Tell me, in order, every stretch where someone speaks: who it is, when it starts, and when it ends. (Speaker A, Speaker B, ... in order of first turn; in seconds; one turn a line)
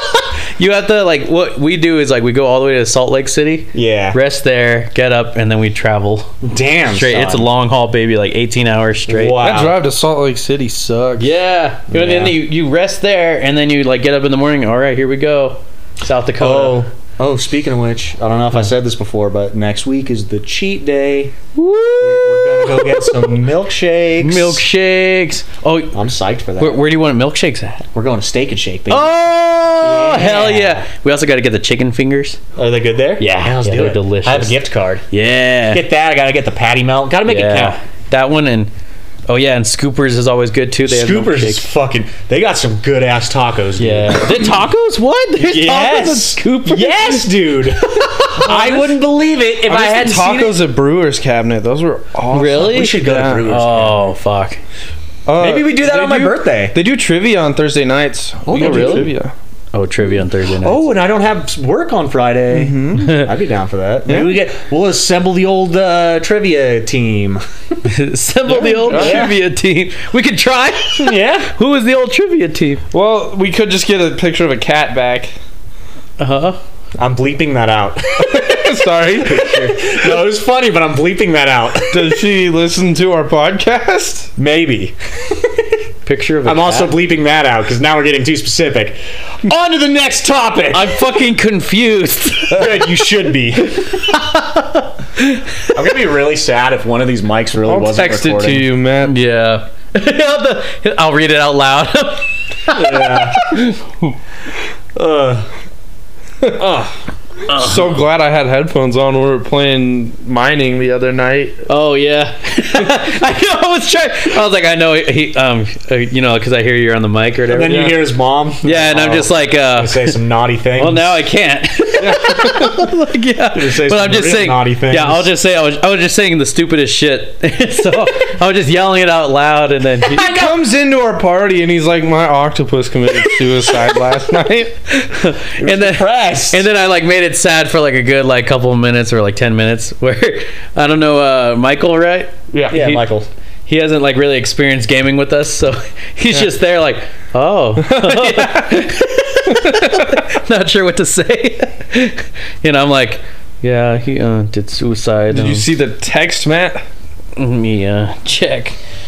Speaker A: 0.6-6.3
Speaker B: 3.7-4.2
Speaker B: 6.4-7.5
Speaker A: 6.9-9.4
Speaker B: 9.1-9.8
Speaker C: 9.4-11.3
Speaker A: 11.2-16.8
Speaker B: 11.9-12.4
Speaker B: 16.4-21.4
Speaker A: 21.6-23.3
Speaker B: 22.0-24.6
Speaker A: 24.2-26.0
Speaker B: 25.9-26.8
Speaker A: 26.6-27.9
Speaker B: 27.9-29.1
Speaker A: 28.9-32.4
Speaker B: 29.8-30.9
Speaker B: 32.6-35.0
Speaker A: 33.2-34.6
Speaker A: 35.1-35.8
Speaker B: 35.7-37.8
Speaker A: 37.3-38.7
Speaker A: 39.3-41.7
Speaker B: 40.9-44.6
Speaker A: 43.8-47.3
Speaker B: 45.4-50.6
Speaker A: 47.9-48.9
Speaker C: 49.7-53.4
Speaker A: 52.3-54.6
Speaker B: 52.5-54.1
Speaker C: 55.3-59.3
Speaker B: 55.4-56.8
Speaker A: 55.8-56.3
Speaker B: 58.5-59.1
Speaker A: 58.5-59.1
Speaker A: 59.7-60.9
Speaker B: 60.6-67.4
Speaker C: 62.5-63.1
Speaker A: 63.0-63.3
Speaker C: 64.1-64.4
Speaker A: 67.8-72.8
Speaker C: 68.5-69.3
Speaker B: 68.9-69.3
Speaker B: 71.0-71.5
Speaker C: 72.9-75.3
Speaker A: 76.2-76.6
Speaker B: 77.0-82.3
Speaker C: 78.2-79.5
Speaker A: 79.3-79.8
Speaker C: 81.9-84.3
Speaker B: 84.4-85.8
Speaker A: 86.0-87.0
Speaker B: 86.4-91.2
Speaker A: 90.7-92.8
Speaker B: 92.5-94.0
Speaker A: 93.6-95.7
Speaker B: 95.7-98.7
Speaker C: 97.7-99.2
Speaker A: 99.0-104.1
Speaker B: 102.7-103.6
Speaker B: 105.0-105.5
Speaker B: 106.5-107.0
Speaker A: 107.5-107.9
Speaker C: 107.5-111.6
Speaker A: 111.7-117.9
Speaker B: 117.5-121.2
Speaker C: 117.7-118.0
Speaker A: 118.6-120.2
Speaker A: 120.8-130.3
Speaker C: 122.0-122.8
Speaker B: 123.5-125.3
Speaker B: 130.1-130.7
Speaker C: 130.2-134.7
Speaker A: 134.9-143.1
Speaker B: 135.6-136.7
Speaker B: 142.7-143.3
Speaker A: 143.7-155.7
Speaker C: 147.8-148.9
Speaker C: 149.5-150.2
Speaker C: 155.3-156.8
Speaker A: 157.4-158.8